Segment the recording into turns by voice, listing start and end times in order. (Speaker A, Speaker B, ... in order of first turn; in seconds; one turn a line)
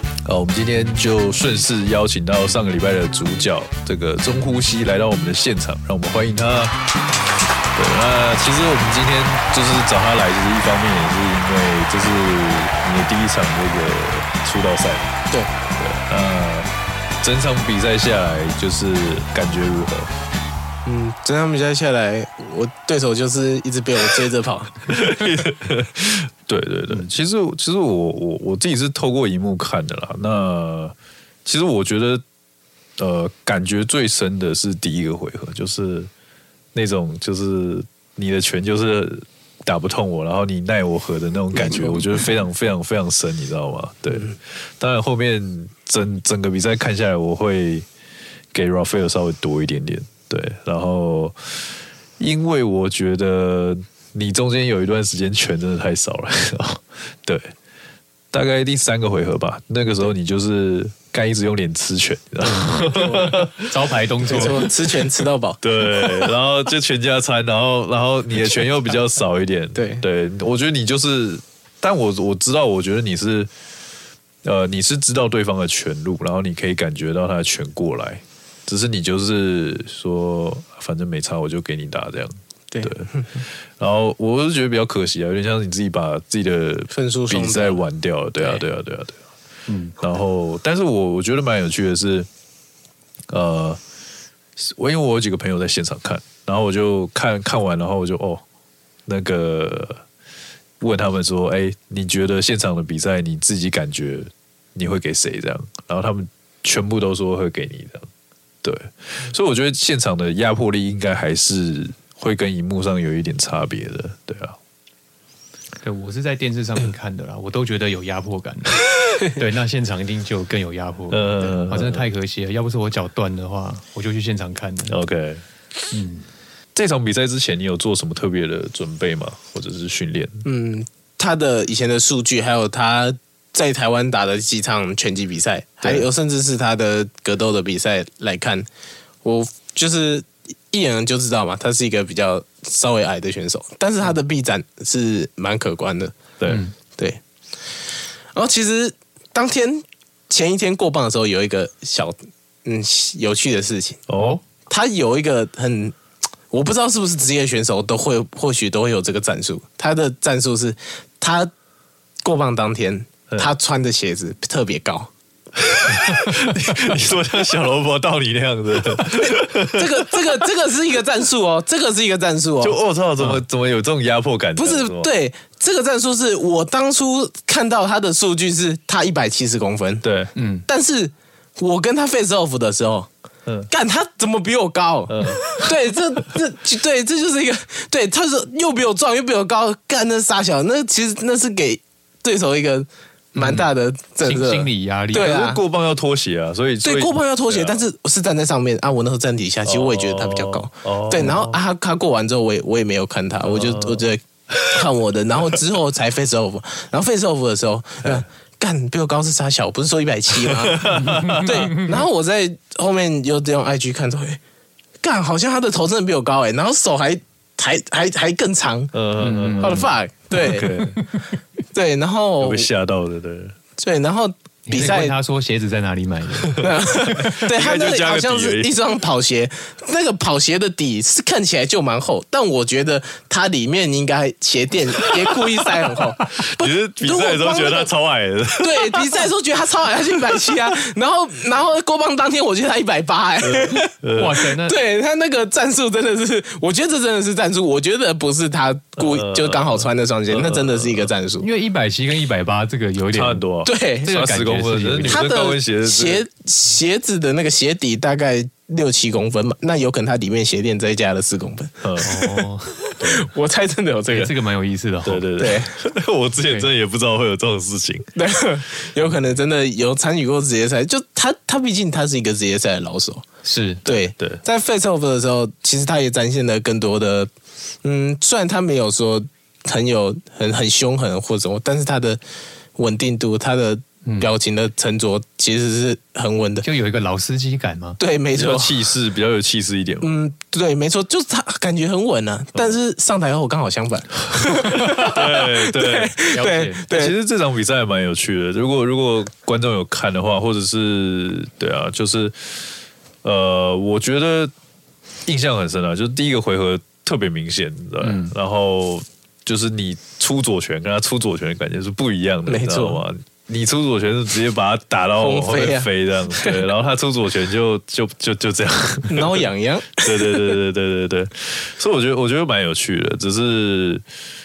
Speaker A: 0.2-6.7
Speaker A: 7.7-15.1
Speaker A: 15.8-20.1
Speaker B: 20.8-24.7
Speaker A: 24.9-32.2
Speaker A: 33.0-36.1
Speaker A: 36.7-47.9
Speaker B: 41.5-42.0
Speaker A: 48.5-51.6
Speaker A: 52.2-57.5
Speaker A: 58.3-63.7
Speaker C: 62.4-64.7
Speaker A: 64.2-64.7
Speaker B: 64.3-65.6
Speaker A: 65.6-73.5
Speaker B: 69.7-70.0
Speaker A: 74.4-89.2
Speaker B: 82.7-83.4
Speaker B: 86.9-87.8
Speaker C: 89.7-89.9
Speaker A: 90.0-92.3
Speaker A: 93.3-93.8
Speaker A: 94.6-98.4
Speaker A: 99.1-100.0
Speaker A: 100.8-108.1
Speaker A: 108.6-114.6
Speaker C: 115.8-125.0
Speaker A: 121.1-122.0
Speaker A: 124.9-125.4
Speaker C: 125.9-126.2
Speaker A: 126.7-130.4
Speaker B: 130.4-138.7
Speaker B: 139.2-146.2
Speaker A: 146.4-146.6
Speaker C: 146.5-146.7
Speaker B: 148.3-154.0
Speaker A: 154.1-154.4
Speaker B: 154.7-155.9
Speaker B: 156.5-161.5
Speaker B: 162.2-165.1
Speaker A: 165.6-170.2
Speaker B: 169.0-172.8
Speaker A: 172.6-175.1
Speaker B: 174.6-180.0
Speaker A: 180.0-180.3
Speaker C: 180.3-180.6
Speaker B: 180.7-183.1
Speaker B: 183.7-195.6
Speaker A: 185.1-185.5
Speaker C: 193.3-193.7
Speaker C: 194.2-195.3
Speaker A: 195.1-197.8
Speaker B: 196.8-214.4
Speaker A: 199.7-201.6
Speaker A: 203.4-204.8
Speaker A: 210.6-211.6
Speaker C: 211.0-211.9
Speaker B: 215.0-218.9
Speaker A: 218.9-221.0
Speaker C: 219.2-219.8
Speaker B: 219.6-220.7
Speaker B: 221.7-222.7
Speaker A: 222.4-223.5
Speaker B: 223.8-225.1
Speaker C: 224.7-226.7
Speaker A: 226.5-228.7
Speaker B: 226.6-237.9
Speaker A: 235.0-235.4
Speaker A: 236.3-239.2
Speaker B: 238.6-243.9
Speaker A: 243.4-244.4
Speaker C: 244.1-244.8
Speaker B: 244.5-251.5
Speaker A: 249.0-251.1
Speaker C: 251.4-253.4
Speaker A: 253.1-256.2
Speaker B: 253.6-254.1
Speaker C: 254.0-255.2
Speaker B: 255.0-261.8
Speaker A: 261.8-262.3
Speaker C: 262.0-262.9
Speaker A: 263.0-263.3
Speaker B: 263.0-264.3
Speaker C: 264.1-265.2
Speaker A: 265.0-268.1
Speaker B: 265.4-265.7
Speaker B: 268.1-273.2
Speaker C: 273.4-273.8
Speaker B: 273.9-277.3
Speaker A: 273.9-274.4
Speaker B: 277.8-282.2
Speaker B: 282.8-286.6
Speaker C: 284.0-284.3
Speaker C: 286.6-288.0
Speaker B: 288.0-288.7
Speaker A: 288.3-290.1
Speaker B: 290.0-297.1
Speaker A: 294.3-296.2
Speaker C: 296.3-296.9
Speaker A: 296.9-302.6
Speaker A: 303.2-304.5
Speaker A: 305.2-319.4
Speaker C: 308.0-308.3
Speaker B: 312.5-313.0
Speaker B: 315.2-316.6
Speaker B: 319.1-320.4
Speaker A: 320.0-324.0